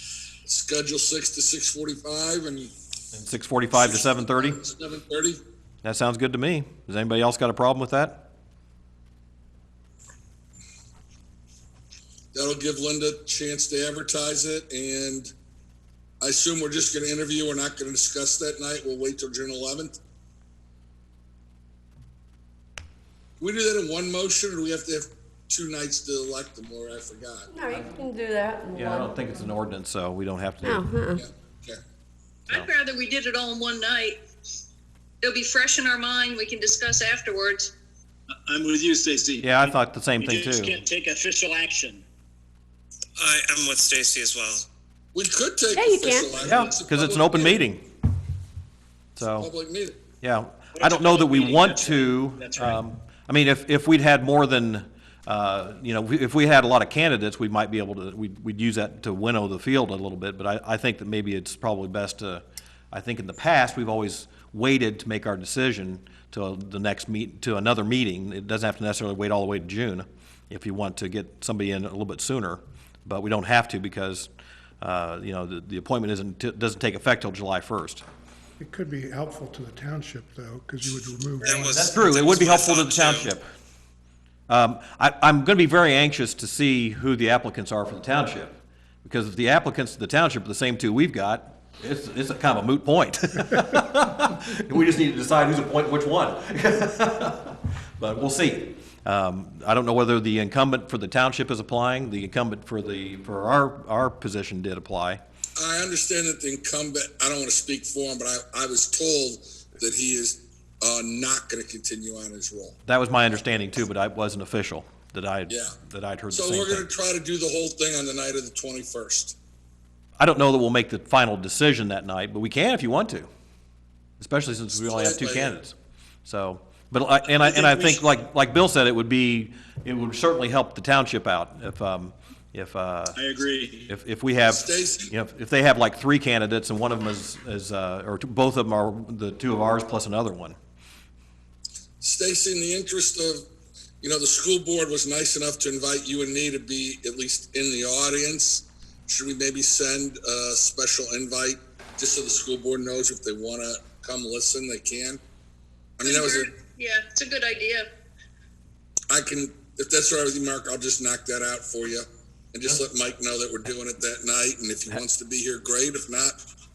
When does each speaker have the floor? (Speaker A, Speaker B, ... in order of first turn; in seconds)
Speaker A: 0.4-2.7, 3.7-5.4, 12.3-15.3, 16.2-20.0, 23.4-27.5, 31.1-31.8, 45.1-47.6, 49.4-50.0, 105.6-112.8, 115.5-115.7, 116.3-119.4, 124.8-125.6, 127.4-127.9, 134.4-135.1, 142.0-143.4, 144.0-155.2, 156.0-156.5, 159.1-166.3
Speaker B: 3.1-4.6, 5.8-8.2, 28.7-30.9, 39.4-40.8, 46.4-47.8, 49.2-49.5, 50.2-74.3, 74.8-78.0, 81.4-83.5, 84.5-105.2, 112.9-116.8, 120.2-123.3, 124.2-125.8, 126.2-133.2, 133.9-140.6
Speaker C: 27.5-29.3, 30.6-31.2, 45.8-46.5
Speaker D: 32.5-34.2, 35.2-37.7, 156.0-157.9
Speaker E: 38.4-42.0, 50.7-52.8, 133.2-133.9
Speaker F: 43.2-44.7, 81.4-83.3
Speaker G: 78.6-81.8